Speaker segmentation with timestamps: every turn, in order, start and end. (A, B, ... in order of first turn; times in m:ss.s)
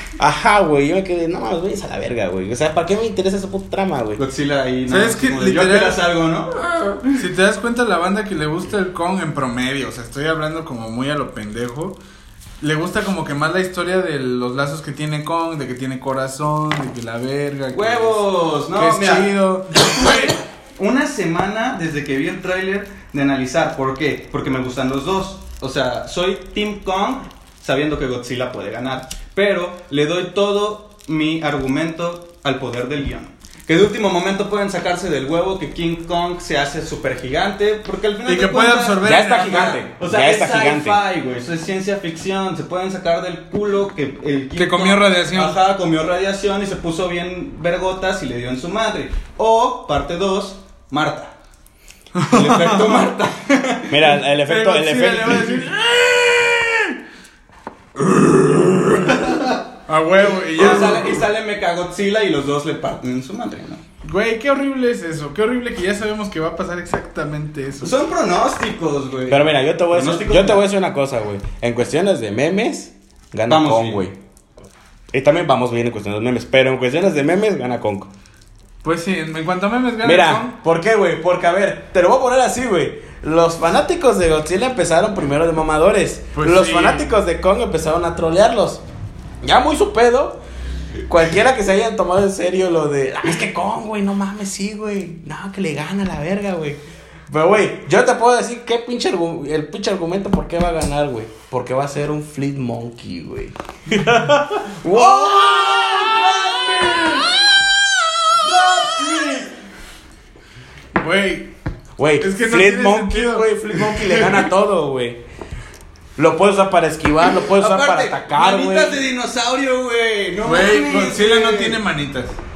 0:00.2-0:04.2 A
0:04.2-0:07.2 B
0:04.9-0:06.0 C
0:07.1-0:12.0 C
0:12.6-0:18.2 C
0:17.7-0:51.3 B
0:18.7-0:20.4 C
0:38.2-0:39.8 C
0:39.0-0:41.0 A
0:44.6-0:45.6 C
0:52.1-0:53.0 C
0:52.3-0:54.0 B
0:53.9-0:55.6 A
0:54.2-0:56.9 C
0:58.0-0:59.2 C
0:59.0-0:59.6 B
0:59.8-1:01.2 C
1:00.3-1:03.8 B
1:04.0-1:07.9 C
1:07.8-1:10.6 B
1:09.3-1:14.2 A
1:13.5-1:14.1 B
1:15.1-1:18.1 A
1:18.8-1:20.5 C
1:20.0-1:28.8 A
1:26.3-1:27.1 C
1:29.4-1:30.4 A
1:31.1-1:47.2 A
1:43.9-1:44.2 C
1:45.0-1:45.5 B
1:45.8-1:47.4 C
1:46.4-1:46.9 B
1:48.4-1:49.5 B
1:50.9-1:51.5 C
1:52.0-1:55.2 A
1:52.2-1:54.4 C
1:56.2-1:59.0 A
1:57.4-2:01.8 B
2:00.4-2:02.4 C